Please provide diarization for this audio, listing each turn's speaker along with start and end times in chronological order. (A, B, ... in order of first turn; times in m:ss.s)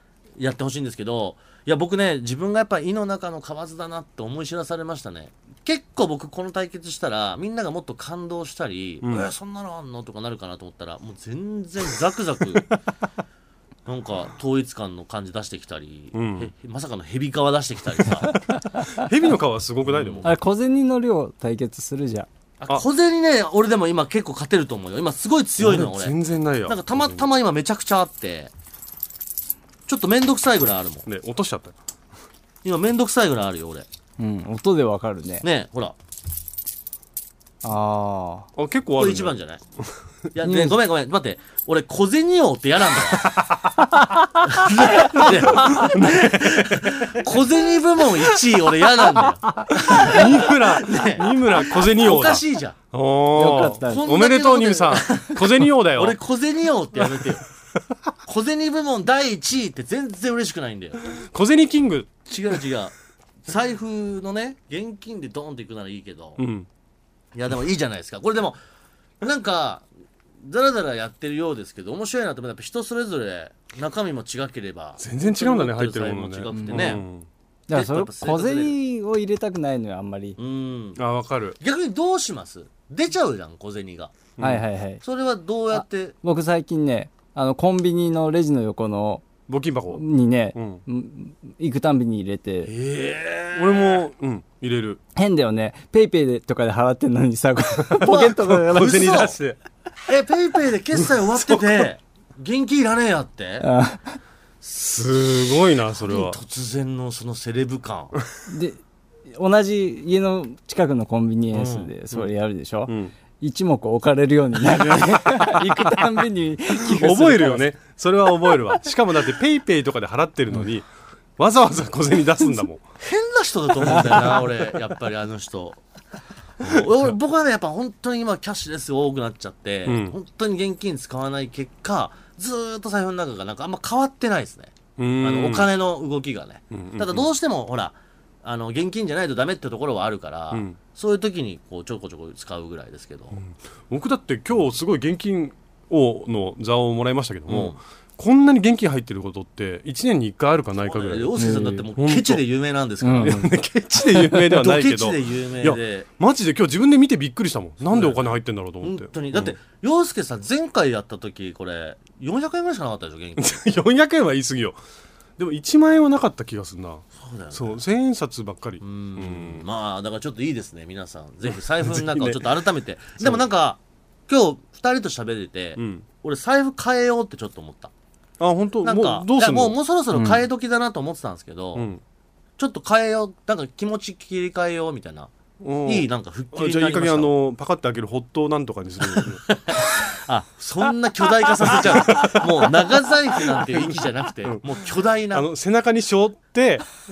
0:00.4-0:12.7 A
0:09.0-0:09.3 B
0:13.9-0:18.4 A
0:16.1-0:16.5 B
0:18.5-0:20.3 B
0:19.9-0:20.3 A
0:20.2-0:22.3 C
0:22.6-0:28.5 A
0:25.6-0:27.3 B
0:29.9-0:31.1 A
0:31.1-0:31.7 B
0:32.6-0:33.9 A
0:34.2-0:35.4 C
0:35.4-0:36.0 A
0:37.6-0:38.5 C
0:38.6-0:39.4 B
0:39.0-0:39.6 A
0:40.3-0:43.4 A
0:40.4-0:40.7 C
0:43.2-0:43.7 B
0:44.4-0:52.8 A
0:44.9-0:47.2 B
0:49.5-0:50.0 C
0:49.8-0:56.2 B
0:53.3-0:54.0 C
0:53.6-0:57.5 A
0:58.3-1:01.2 A
1:01.2-1:02.2 B
1:02.3-1:02.9 A
1:03.5-1:06.4 A
1:06.4-1:06.7 B
1:07.3-1:08.6 A
1:09.2-1:09.9 A
1:10.4-1:17.0 A
1:15.0-1:17.3 B
1:16.5-1:17.0 C
1:17.7-1:20.4 C
1:17.7-1:18.8 A
1:20.4-1:21.0 A
1:21.0-1:21.6 B
1:21.6-1:24.1 A
1:24.4-1:24.6 B
1:24.4-1:25.0 C
1:25.0-1:26.2 A
1:25.7-1:29.3 C
1:29.5-1:30.0 B
1:29.9-1:32.7 C
1:30.6-1:30.8 B
1:32.7-1:34.1 A
1:33.6-1:35.0 B
1:35.2-1:39.2 C
1:38.0-1:39.4 A
1:38.0-1:39.6 B
1:40.1-1:43.7 A
1:41.4-1:41.8 B
1:43.6-1:44.2 C
1:44.6-1:46.4 B
1:45.9-1:48.1 A
1:48.5-1:48.8 C
1:49.3-1:57.7 C
1:51.5-1:51.9 A
1:52.9-1:53.1 B
1:56.9-2:02.8 B
2:03.0-2:05.8 A
2:06.6-2:23.4 A
2:09.9-2:10.1 B
2:15.0-2:15.7 B
2:16.7-2:17.3 B
2:20.5-2:20.8 B
2:23.4-2:31.3 B
2:27.5-2:27.8 A
2:30.8-2:36.1 A
2:31.4-2:31.9 C
2:32.0-2:32.4 B
2:33.0-2:33.5 C
2:33.2-2:39.5 B
2:37.8-2:38.3 A
2:38.8-2:43.6 A
2:43.4-2:44.8 B
2:45.4-2:49.6 B
2:47.2-2:47.8 A
2:48.8-2:57.9 A
2:51.8-2:52.5 B
2:53.2-2:53.4 B
2:55.8-2:56.0 B
2:58.4-2:59.7 B
2:58.8-3:01.9 A
3:00.1-3:00.4 C
3:01.8-3:02.0 B
3:02.6-3:05.3 A
3:05.6-3:10.1 B
3:05.8-3:07.3 A
3:09.1-3:15.5 A
3:11.6-3:12.7 B
3:13.5-3:13.9 B
3:15.3-3:16.9 B